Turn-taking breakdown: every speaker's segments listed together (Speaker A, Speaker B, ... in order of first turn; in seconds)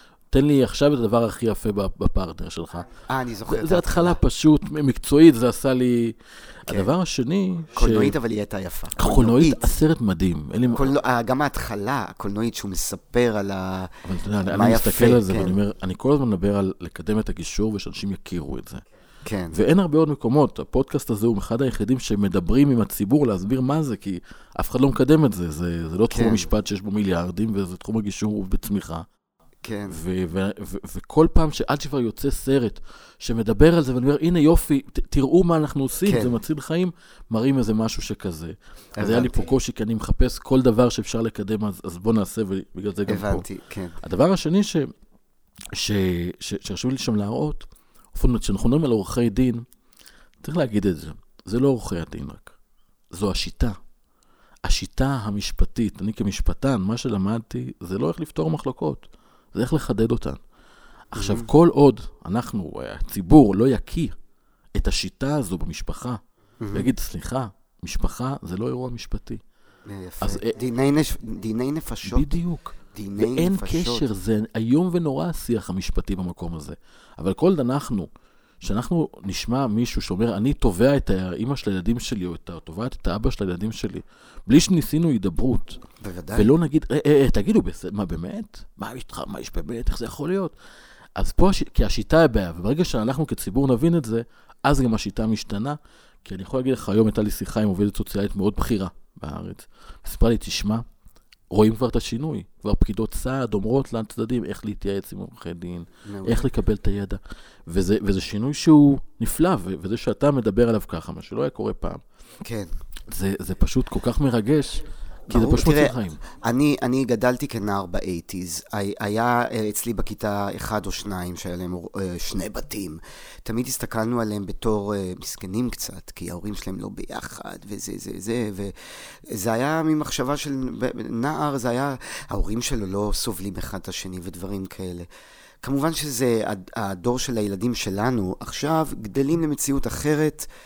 Speaker A: 0.3-2.9, 3.5-8.1, 8.9-10.9, 14.0-18.8, 19.5-29.1, 29.9-43.5, 44.0-44.9, 45.7-49.6, 50.4-52.5, 53.1-53.8, 54.6-60.4, 61.1-64.2, 64.8-66.2, 66.7-69.4, 70.2-70.5, 72.0-78.1, 78.6-85.8, 86.3-90.5, 91.2-100.8, 101.5-112.0, 113.1-116.2
Speaker B: 3.1-4.2, 7.7-9.7, 10.7-13.9, 14.4-15.6, 19.2-19.6, 26.1-26.5, 29.6-30.0, 36.0-36.4, 39.0-39.5, 43.0-44.0, 61.1-61.5, 66.6-66.9, 69.8-72.3, 72.9-74.1, 86.0-86.5, 106.0-106.5, 112.4-112.7, 115.3-135.1, 135.6-140.5